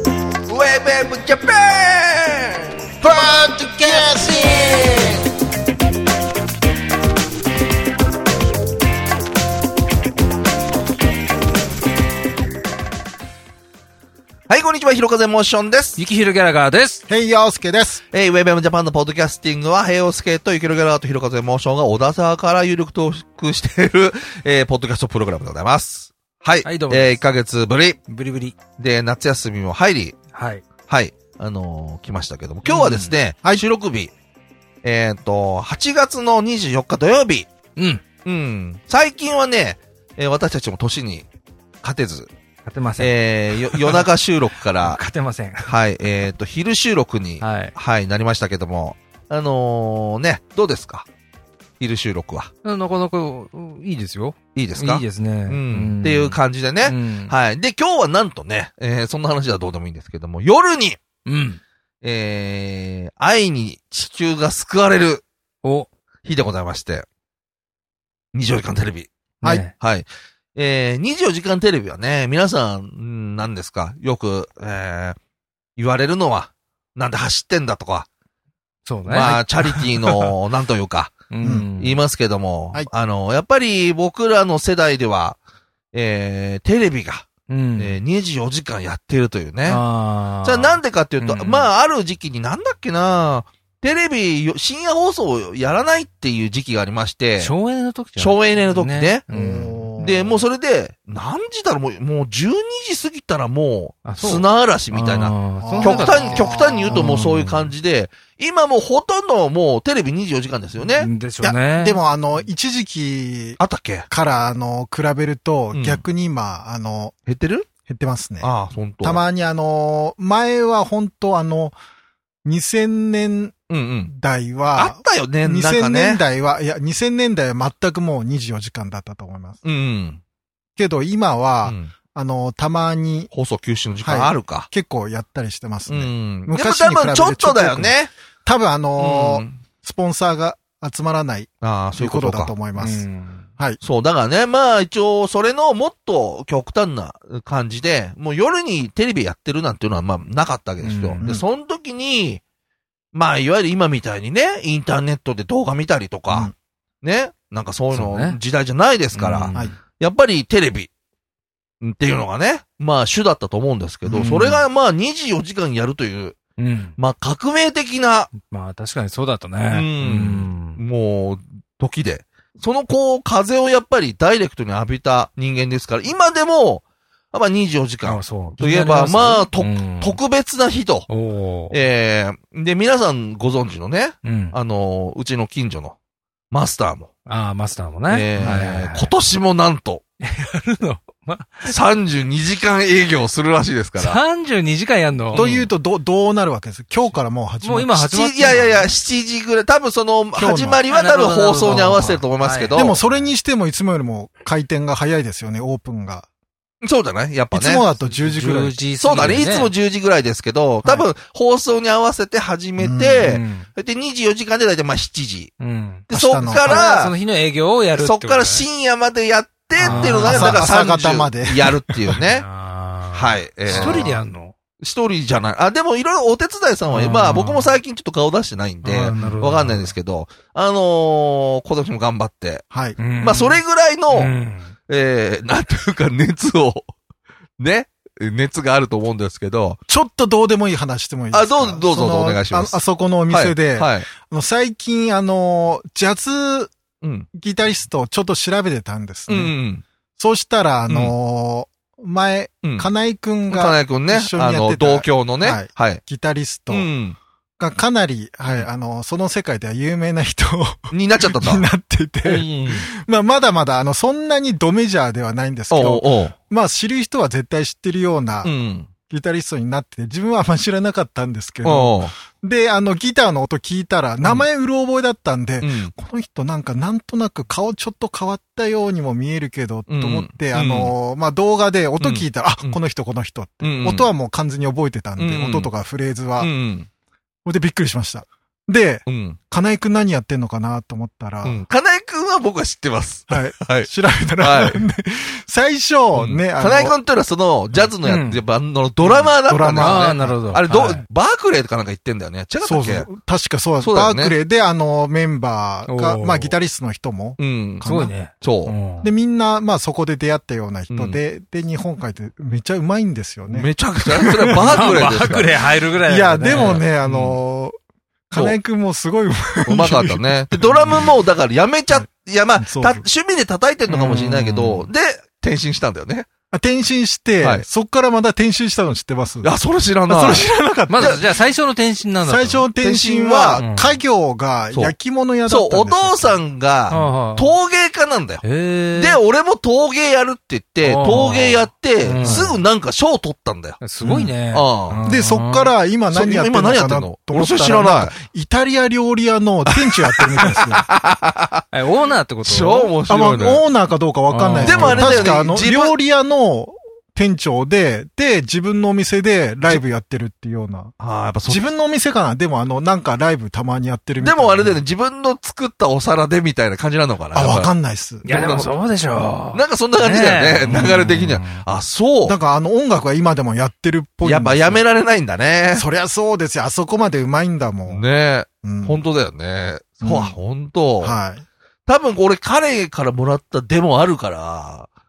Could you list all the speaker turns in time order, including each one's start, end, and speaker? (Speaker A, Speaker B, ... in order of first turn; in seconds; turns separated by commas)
Speaker A: 0.5-2.7, Speaker B: 3.2-4.3, Speaker C: 3.4-4.5, Speaker A: 14.5-16.0, Speaker C: 16.0-17.0, Speaker B: 17.1-18.0, Speaker A: 18.1-28.0, Speaker C: 26.6-27.2, Speaker C: 28.1-28.6, Speaker A: 28.8-30.2, Speaker C: 30.3-30.6, Speaker A: 30.9-34.1, Speaker C: 32.6-33.1, Speaker A: 34.8-37.5, Speaker C: 37.8-38.0, Speaker A: 38.2-41.3, Speaker A: 41.8-42.3, Speaker C: 42.6-44.1, Speaker A: 43.0-45.0, Speaker C: 44.8-45.7, Speaker A: 45.6-51.0, Speaker C: 47.4-47.7, Speaker A: 51.8-52.5, Speaker C: 52.6-57.3, Speaker A: 54.5-61.0, Speaker C: 61.2-61.6, Speaker A: 62.0-65.2, Speaker C: 65.6-65.9, Speaker A: 66.2-67.0, Speaker A: 68.3-69.1, Speaker C: 69.4-69.7, Speaker A: 69.8-75.2, Speaker A: 75.8-78.1, Speaker C: 78.8-80.3, Speaker A: 79.0-81.2, Speaker C: 81.3-82.0, Speaker B: 81.4-81.7, Speaker A: 81.8-85.4, Speaker A: 85.9-89.8, Speaker C: 87.5-88.0, Speaker C: 89.7-91.7, Speaker A: 90.4-97.5, Speaker C: 97.4-99.8, Speaker A: 98.2-99.2, Speaker B: 99.3-100.4, Speaker A: 100.0-111.1, Speaker C: 104.0-107.7, Speaker B: 105.6-107.2, Speaker C: 110.9-112.0, Speaker B: 111.4-117.1, Speaker A: 113.6-114.1, Speaker A: 115.7-116.0, Speaker A: 117.3-117.7, Speaker B: 117.8-118.5, Speaker A: 118.4-119.2, Speaker B: 119.0-121.7, Speaker B: 122.4-123.5, Speaker A: 123.7-124.1, Speaker B: 124.1-129.6, Speaker A: 124.7-126.2, Speaker A: 129.6-130.2, Speaker B: 130.8-133.3, Speaker A: 131.6-131.9, Speaker A: 133.3-134.7, Speaker B: 134.0-143.1, Speaker A: 135.9-138.1, Speaker A: 139.0-139.6, Speaker A: 141.6-142.5, Speaker C: 142.8-143.5, Speaker A: 143.8-152.4, Speaker C: 150.8-151.2, Speaker A: 153.1-156.5, Speaker A: 157.0-160.9, Speaker C: 157.9-158.4, Speaker C: 159.1-159.7, Speaker A: 161.8-166.4, Speaker B: 164.0-164.5, Speaker C: 164.1-164.6, Speaker C: 166.6-167.0, Speaker A: 167.0-168.3, Speaker C: 168.3-170.8, Speaker A: 169.7-181.1, Speaker C: 178.0-180.2, Speaker C: 181.1-181.7, Speaker A: 181.7-186.0, Speaker C: 184.2-184.6, Speaker A: 186.5-187.1, Speaker C: 187.2-189.1, Speaker A: 188.1-190.0, Speaker B: 188.4-188.7, Speaker C: 190.2-191.7, Speaker A: 191.7-194.2, Speaker C: 194.0-195.7, Speaker B: 195.3-198.7, Speaker C: 197.6-198.9, Speaker A: 198.0-203.0, Speaker B: 200.3-200.8, Speaker C: 200.9-203.2, Speaker B: 201.7-202.0, Speaker B: 202.7-206.3, Speaker A: 206.8-207.8, Speaker B: 207.5-208.8, Speaker C: 208.0-209.7, Speaker A: 209.0-215.5, Speaker B: 212.8-213.3, Speaker C: 213.2-213.7, Speaker C: 215.6-218.7, Speaker A: 216.1-217.1, Speaker B: 216.1-216.8, Speaker A: 218.0-222.5, Speaker C: 219.8-220.6, Speaker B: 219.8-222.2, Speaker C: 222.3-224.5, Speaker A: 223.1-224.2, Speaker B: 223.7-224.1, Speaker A: 224.8-232.6, Speaker C: 226.9-227.8, Speaker C: 228.8-229.9, Speaker B: 229.1-229.3, Speaker B: 232.7-233.0, Speaker C: 233.0-234.7, Speaker A: 233.2-234.3, Speaker A: 234.9-236.8, Speaker A: 237.6-239.8, Speaker B: 239.9-246.7, Speaker A: 241.3-244.1, Speaker A: 247.0-247.3, Speaker B: 247.3-249.5, Speaker A: 249.3-249.8, Speaker B: 250.2-256.9, Speaker A: 250.9-251.1, Speaker A: 252.6-252.9, Speaker A: 253.5-256.0, Speaker A: 256.7-257.2, Speaker B: 257.6-268.5, Speaker A: 260.9-261.6, Speaker A: 262.2-262.9, Speaker A: 265.7-266.3, Speaker A: 268.4-268.9, Speaker B: 269.1-286.5, Speaker A: 271.6-272.1, Speaker A: 275.6-275.9, Speaker A: 279.9-280.9, Speaker A: 282.0-282.8, Speaker A: 283.6-284.1, Speaker A: 285.2-285.7, Speaker A: 286.4-286.9, Speaker B: 287.4-291.6, Speaker A: 289.1-289.4, Speaker A: 291.4-293.9, Speaker B: 293.3-296.9, Speaker A: 294.4-294.8, Speaker A: 296.1-303.1, Speaker C: 298.0-298.4, Speaker B: 299.0-300.4, Speaker C: 299.8-301.0, Speaker B: 302.6-308.1, Speaker A: 303.8-304.4, Speaker C: 305.9-306.5, Speaker A: 307.4-307.9, Speaker C: 307.8-309.1, Speaker A: 308.4-308.7, Speaker B: 309.0-315.1, Speaker A: 310.9-311.2, Speaker A: 313.5-315.5, Speaker C: 314.6-316.9, Speaker B: 316.0-317.7, Speaker A: 316.5-317.4, Speaker B: 318.3-321.1, Speaker A: 319.7-326.3, Speaker B: 322.6-323.0, Speaker C: 323.9-324.9, Speaker B: 326.5-329.5, Speaker A: 327.4-327.6, Speaker A: 329.4-331.2, Speaker B: 330.1-331.2, Speaker C: 330.9-332.7, Speaker B: 332.2-336.4, Speaker A: 332.8-333.6, Speaker C: 333.6-334.0, Speaker A: 335.4-338.4, Speaker C: 336.9-337.5, Speaker C: 338.4-339.2, Speaker A: 338.9-345.0, Speaker C: 340.8-342.6, Speaker B: 342.2-342.6, Speaker C: 343.8-345.7, Speaker B: 345.0-350.9, Speaker A: 346.1-348.1, Speaker A: 349.8-351.6, Speaker C: 351.7-352.9, Speaker A: 352.4-353.6, Speaker B: 353.1-360.9, Speaker C: 354.3-355.3, Speaker A: 354.6-355.9, Speaker A: 361.0-361.7, Speaker B: 361.5-364.8, Speaker A: 364.2-367.7, Speaker B: 367.3-368.2, Speaker C: 368.2-371.6, Speaker A: 368.2-368.7, Speaker A: 369.5-372.4, Speaker B: 372.2-374.8, Speaker A: 374.2-375.9, Speaker B: 375.7-378.0, Speaker A: 377.9-381.2, Speaker B: 378.6-379.0, Speaker B: 380.0-380.4, Speaker B: 381.0-381.4, Speaker A: 381.9-384.9